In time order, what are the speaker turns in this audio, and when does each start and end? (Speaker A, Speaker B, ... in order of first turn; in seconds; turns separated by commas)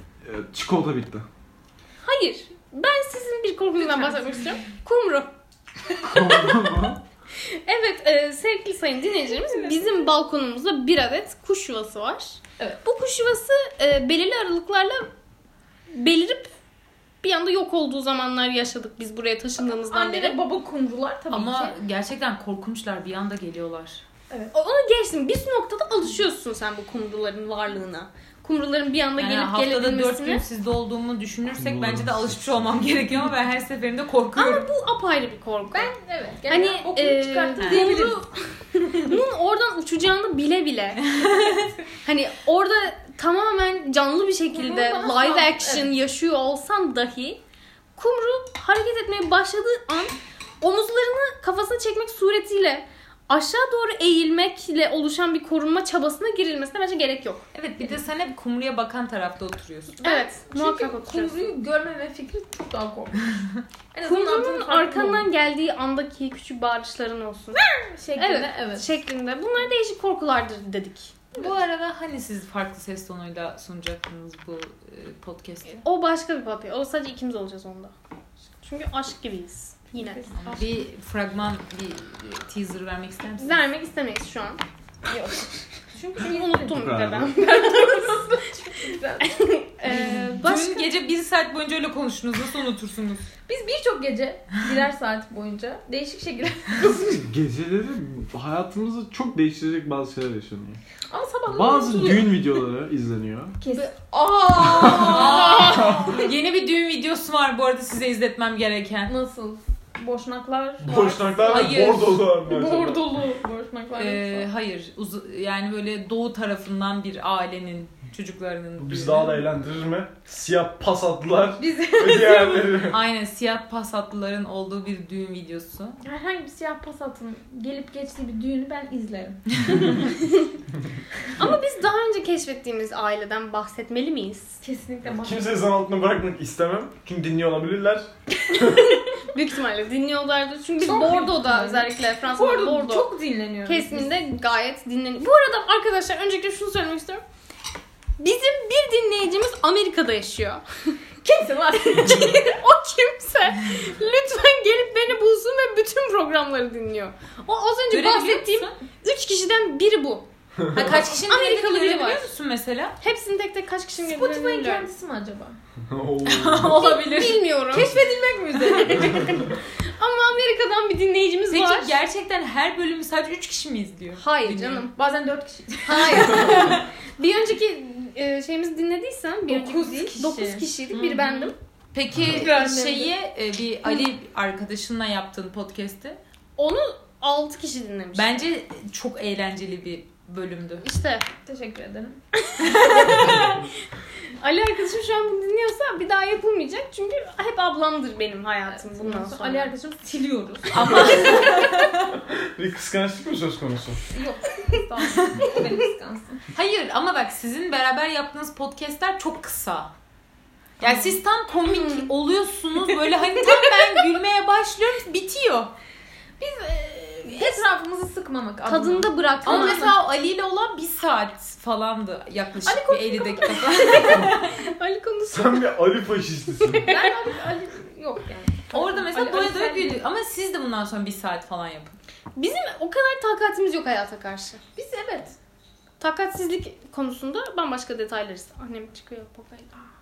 Speaker A: 0.2-1.3, Speaker B: 2.0-5.3, Speaker C: 3.8-4.4, Speaker B: 6.0-6.7, Speaker A: 6.0-7.0, Speaker B: 7.4-15.1, Speaker C: 9.3-10.1, Speaker B: 15.9-16.5, Speaker B: 17.2-20.4, Speaker C: 19.6-21.7, Speaker D: 21.3-24.0, Speaker B: 24.5-30.4, Speaker D: 29.2-34.7, Speaker A: 31.6-33.1, Speaker B: 34.3-35.9, Speaker C: 35.7-39.2, Speaker B: 36.5-38.3, Speaker D: 37.6-38.0, Speaker B: 39.0-47.4, Speaker D: 41.2-41.7, Speaker C: 44.5-45.9, Speaker B: 48.0-57.5, Speaker D: 57.5-60.2, Speaker B: 60.0-61.5, Speaker C: 60.1-63.3, Speaker C: 63.9-65.3, Speaker B: 64.0-67.6, Speaker C: 67.5-69.0, Speaker B: 68.2-71.3, Speaker D: 71.3-75.8, Speaker B: 75.8-77.9, Speaker B: 78.6-80.2, Speaker C: 79.9-80.8, Speaker D: 80.3-83.6, Speaker B: 83.4-84.6, Speaker C: 85.1-86.8, Speaker B: 86.1-88.2, Speaker A: 86.7-87.3, Speaker C: 87.3-89.4, Speaker B: 89.2-90.9, Speaker D: 89.8-93.3, Speaker C: 93.5-97.2, Speaker A: 96.8-100.8, Speaker C: 101.1-102.4, Speaker A: 101.5-103.6, Speaker C: 103.6-106.3, Speaker A: 104.6-106.2, Speaker D: 104.8-109.1, Speaker C: 109.1-111.8, Speaker A: 110.8-113.0, Speaker D: 111.4-112.2, Speaker C: 112.4-114.5, Speaker D: 114.0-119.4, Speaker A: 118.8-123.0, Speaker C: 121.6-122.8, Speaker D: 122.8-126.0, Speaker C: 126.0-130.1, Speaker B: 131.3-134.6, Speaker C: 134.6-135.5, Speaker A: 135.0-139.0, Speaker B: 138.5-143.1, Speaker C: 140.8-144.2, Speaker B: 143.7-147.2, Speaker B: 148.2-150.9, Speaker C: 151.2-152.5, Speaker B: 151.9-162.3, Speaker D: 157.9-158.7, Speaker D: 160.7-163.0, Speaker B: 163.0-164.9, Speaker C: 164.0-165.6, Speaker A: 165.9-166.8, Speaker D: 166.2-167.4, Speaker B: 166.6-167.9, Speaker C: 167.7-169.4, Speaker B: 168.9-171.9, Speaker D: 171.5-174.9, Speaker B: 174.2-174.9, Speaker C: 174.9-176.8, Speaker B: 175.8-181.5, Speaker C: 179.5-181.1, Speaker D: 180.9-186.2, Speaker C: 182.2-183.1, Speaker B: 182.3-182.8, Speaker B: 186.6-188.4, Speaker D: 188.1-190.8, Speaker B: 190.8-191.2, Speaker C: 191.4-192.2, Speaker B: 192.5-193.6, Speaker D: 192.6-193.6, Speaker B: 194.4-199.7, Speaker C: 198.7-201.5, Speaker D: 200.7-202.1, Speaker A: 202.2-204.0, Speaker C: 204.1-206.4, Speaker D: 206.5-209.9, Speaker D: 210.8-215.7, Speaker B: 211.6-212.1, Speaker C: 216.4-220.0, Speaker B: 217.2-217.6, Speaker B: 218.7-219.9, Speaker D: 219.4-224.5, Speaker C: 222.6-224.3, Speaker B: 223.9-225.7, Speaker A: 225.3-226.9, Speaker B: 226.6-227.2, Speaker C: 226.8-230.0, Speaker D: 228.7-232.0, Speaker B: 232.3-234.6, Speaker C: 234.8-235.3, Speaker B: 236.0-239.8